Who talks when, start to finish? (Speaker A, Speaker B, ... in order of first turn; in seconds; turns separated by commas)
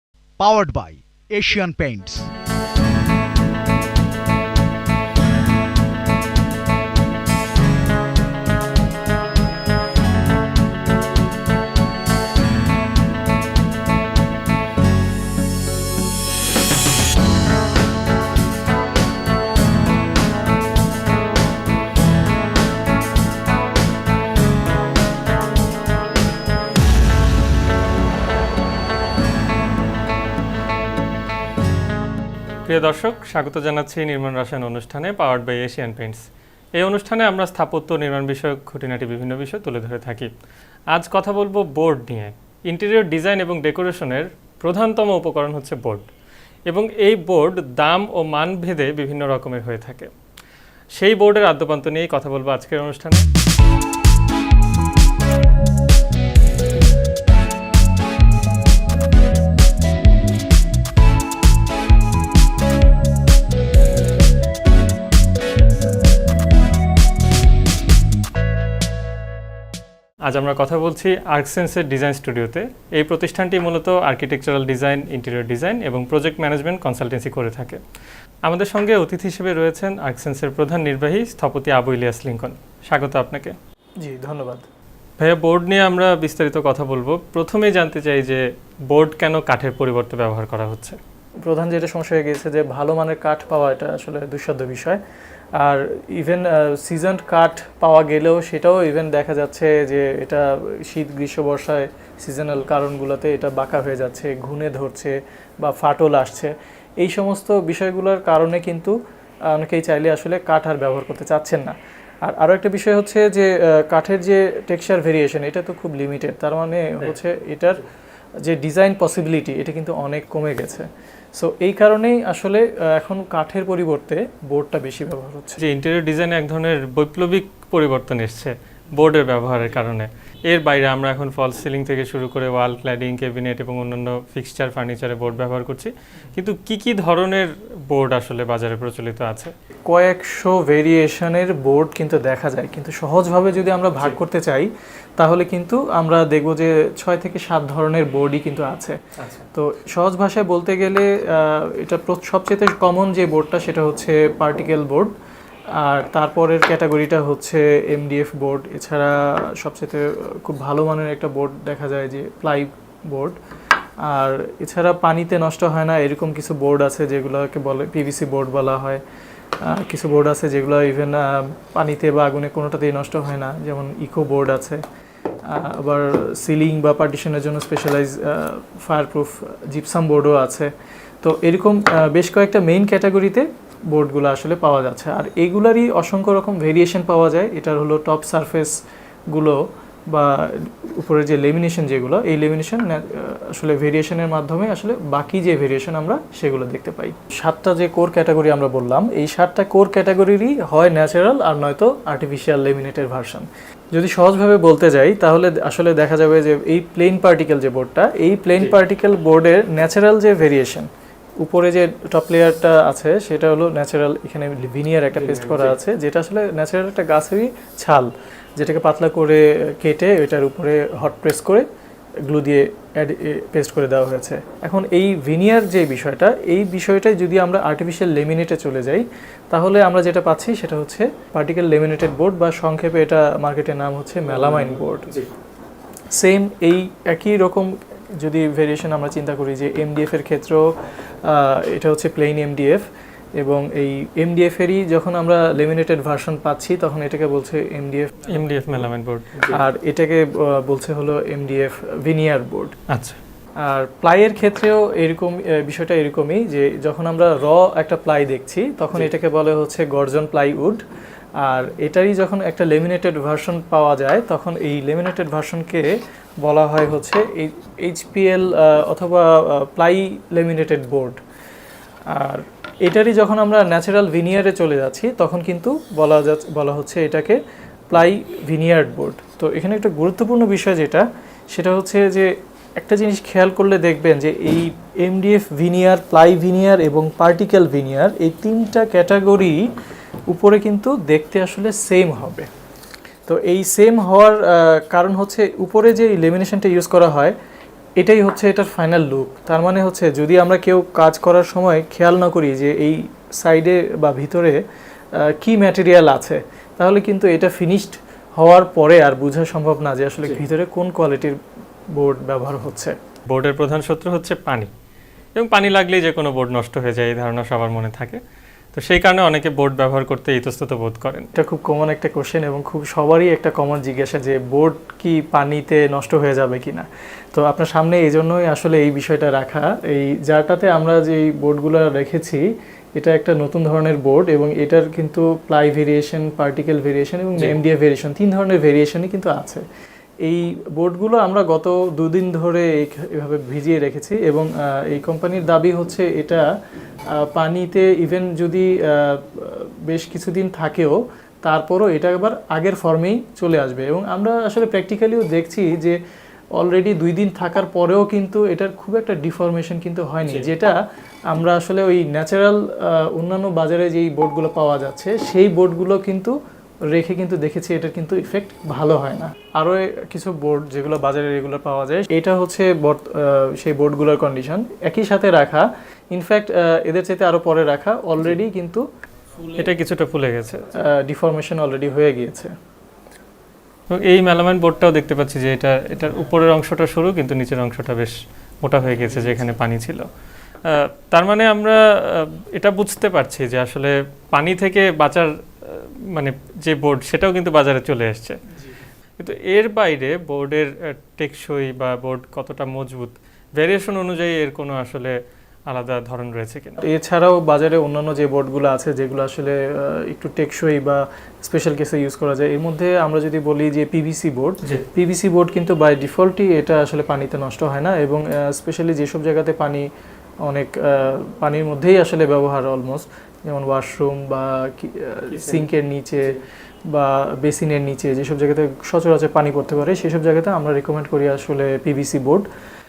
Speaker A: 0.4-2.3, Speaker B: 32.7-36.2, Speaker B: 36.8-40.3, Speaker B: 40.9-46.1, Speaker B: 46.7-50.1, Speaker B: 51.0-53.3, Speaker B: 70.3-77.8, Speaker B: 78.5-83.5, Speaker C: 84.0-84.7, Speaker B: 85.2-91.0, Speaker C: 91.4-95.0, Speaker C: 95.6-109.0, Speaker C: 109.5-117.8, Speaker C: 118.4-125.6, Speaker B: 125.6-139.5, Speaker C: 139.9-149.0, Speaker B: 149.2-149.4, Speaker C: 149.5-155.1, Speaker C: 155.8-163.4, Speaker C: 164.0-169.0, Speaker C: 169.6-174.8, Speaker C: 175.5-188.7, Speaker C: 189.3-210.9, Speaker C: 211.4-221.7, Speaker B: 215.2-215.8, Speaker C: 222.2-235.2, Speaker B: 234.5-235.3, Speaker C: 236.1-240.7, Speaker C: 241.2-242.9, Speaker C: 243.4-248.4, Speaker B: 248.3-249.5, Speaker C: 249.4-252.8, Speaker B: 252.9-253.2, Speaker C: 253.6-260.8, Speaker C: 261.4-271.2, Speaker C: 272.1-289.7, Speaker C: 290.3-292.5, Speaker C: 293.3-297.4, Speaker C: 298.0-304.6, Speaker C: 305.1-311.4, Speaker C: 311.9-313.0, Speaker B: 313.3-314.7, Speaker B: 315.4-318.2, Speaker B: 318.7-321.3, Speaker C: 321.4-339.6, Speaker C: 340.2-346.5, Speaker C: 347.1-356.0, Speaker C: 356.6-366.4, Speaker C: 366.9-378.9, Speaker B: 379.6-380.7, Speaker C: 380.8-382.5, Speaker B: 383.9-390.1, Speaker B: 390.7-398.4, Speaker B: 399.2-405.2, Speaker B: 405.7-406.8, Speaker C: 406.8-419.9, Speaker C: 420.4-426.4, Speaker B: 425.3-425.7, Speaker C: 426.9-432.5